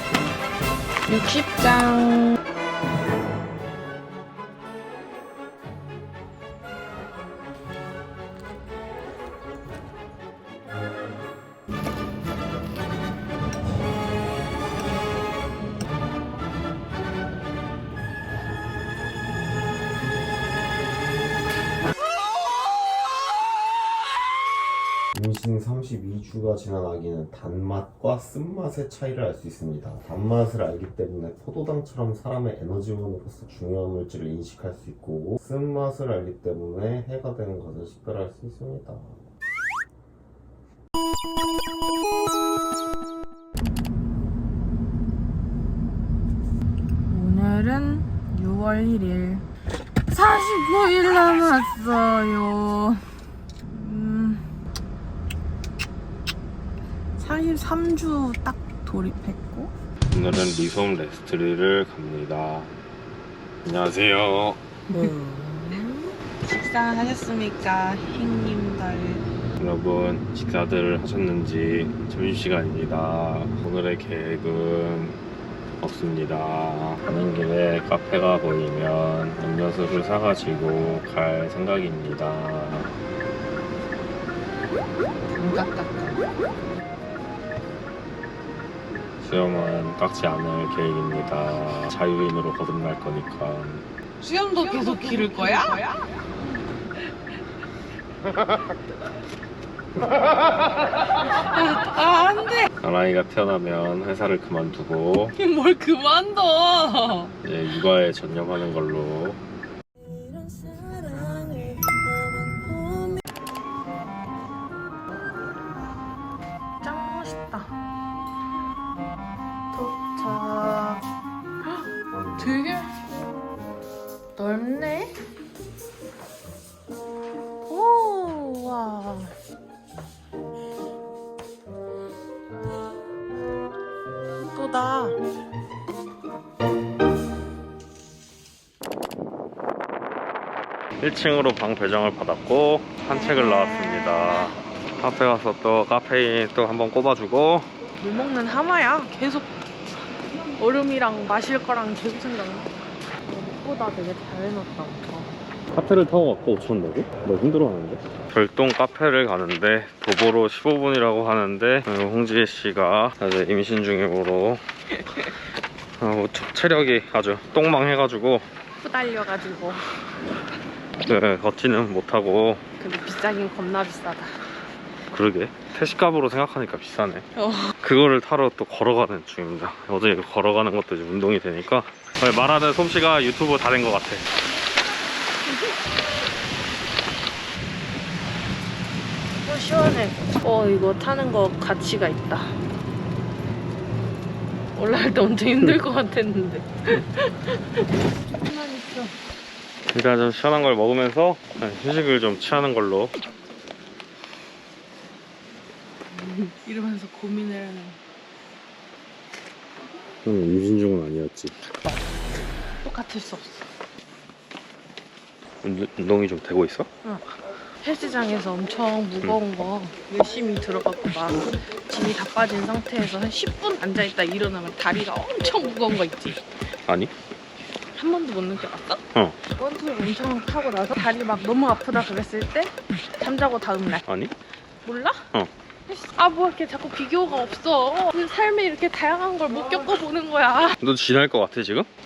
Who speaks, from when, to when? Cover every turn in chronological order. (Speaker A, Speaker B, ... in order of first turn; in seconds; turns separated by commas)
Speaker A: 1.1-2.4, Speaker B: 25.1-39.2, Speaker A: 47.1-49.4, Speaker A: 50.1-54.5, Speaker A: 57.2-59.7, Speaker C: 60.1-62.7, Speaker C: 63.6-64.6, Speaker A: 64.9-69.2, Speaker C: 69.6-75.2, Speaker C: 75.8-82.9, Speaker A: 85.3-86.3, Speaker C: 89.2-93.8, Speaker A: 94.2-96.0, Speaker A: 101.5-102.7, Speaker C: 102.8-105.3, Speaker A: 105.4-107.3, Speaker C: 107.4-109.4, Speaker A: 110.9-113.0, Speaker A: 116.8-117.7, Speaker A: 119.7-121.0, Speaker A: 122.4-122.9, Speaker A: 124.4-125.2, Speaker A: 127.7-129.3, Speaker A: 134.5-135.2, Speaker C: 141.0-147.7, Speaker A: 143.1-144.4, Speaker A: 148.0-149.5, Speaker A: 150.6-152.7, Speaker A: 153.2-155.3, Speaker C: 155.7-164.6, Speaker C: 166.0-168.4, Speaker A: 168.8-169.8, Speaker C: 171.0-172.6, Speaker A: 172.8-174.4, Speaker C: 175.1-177.3, Speaker A: 177.4-177.7, Speaker C: 177.8-184.2, Speaker A: 189.4-192.6, Speaker A: 194.8-199.1, Speaker C: 199.9-203.1, Speaker A: 206.1-208.0, Speaker C: 210.2-211.6, Speaker A: 212.8-213.7, Speaker C: 215.6-216.9, Speaker A: 217.8-226.4, Speaker A: 227.9-229.0, Speaker A: 229.6-234.0, Speaker C: 234.1-234.3, Speaker A: 234.8-235.3, Speaker A: 235.9-240.8, Speaker C: 240.8-241.9